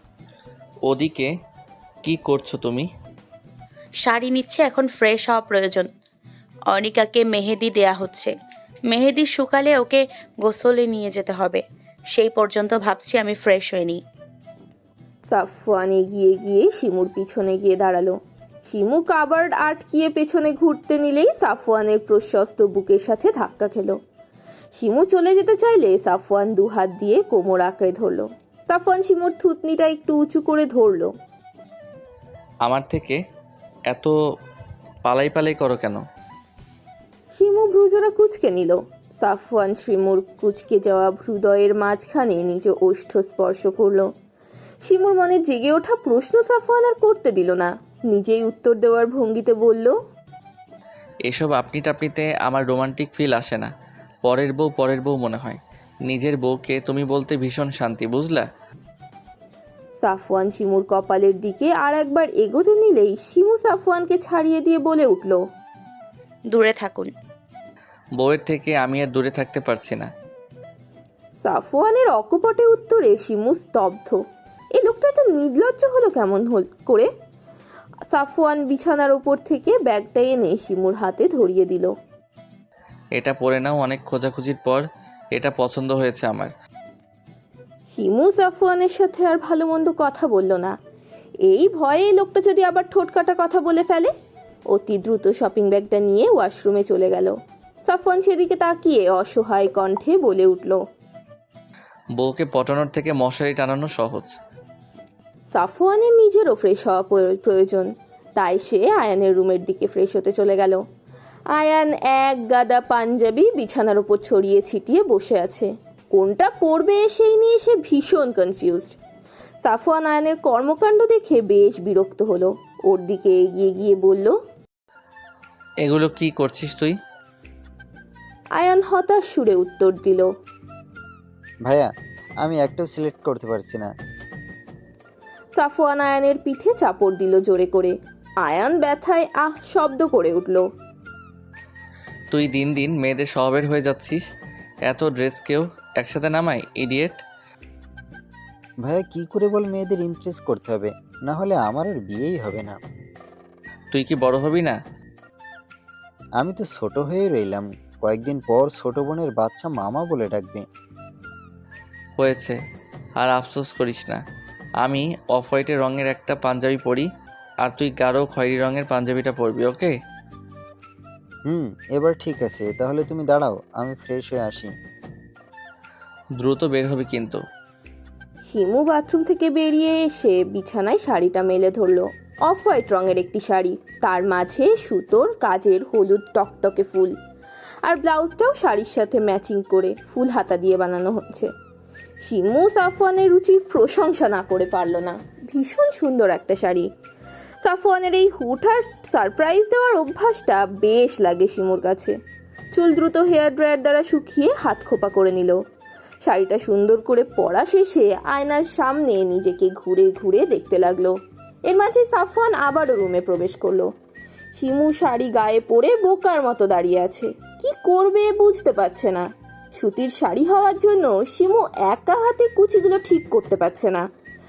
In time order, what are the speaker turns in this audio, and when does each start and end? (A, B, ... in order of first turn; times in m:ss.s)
0:00.9-0:01.3 A
0:02.0-0:02.9 A
0:04.0-0:05.9 B
0:06.7-0:08.3 B
0:08.9-0:14.0 B
0:15.3-0:24.0 C
0:24.8-0:31.1 C
0:32.6-0:33.2 A
0:35.0-0:36.0 A
0:37.3-0:44.1 C
0:44.8-0:49.9 C
0:51.3-0:53.7 A
0:54.2-0:58.5 A
1:00.0-1:05.4 C
1:06.5-1:07.1 B
1:08.2-1:10.1 A
1:11.4-1:14.2 C
1:14.8-1:17.1 C
1:18.1-1:21.9 C
1:23.2-1:24.8 A
1:25.4-1:26.5 A
1:27.9-1:30.7 C
1:31.5-1:34.1 C
1:34.7-1:37.3 C
1:37.9-1:40.8 C
1:42.2-1:44.4 A
1:45.5-1:50.8 C
1:51.6-1:59.0 C
1:59.6-2:04.4 C
2:05.8-2:07.0 A
2:08.6-2:10.3 C
2:12.4-2:13.9 D
2:15.6-2:20.6 C
2:22.3-2:24.2 A
2:24.9-2:27.2 A
2:28.8-2:32.8 D
2:33.9-2:34.8 A
2:36.4-2:40.6 D
2:42.2-2:42.6 A
2:43.2-2:44.2 A
2:44.8-2:47.1 A
2:47.6-2:49.9 A
2:51.5-2:54.7 D
2:56.4-2:57.4 A
2:58.5-3:07.1 C
3:07.9-3:11.5 C
3:12.2-3:16.9 C
3:17.6-3:22.1 C
3:22.8-3:25.6 C
3:26.2-3:31.1 C
3:31.7-3:33.9 C
3:34.6-3:44.1 C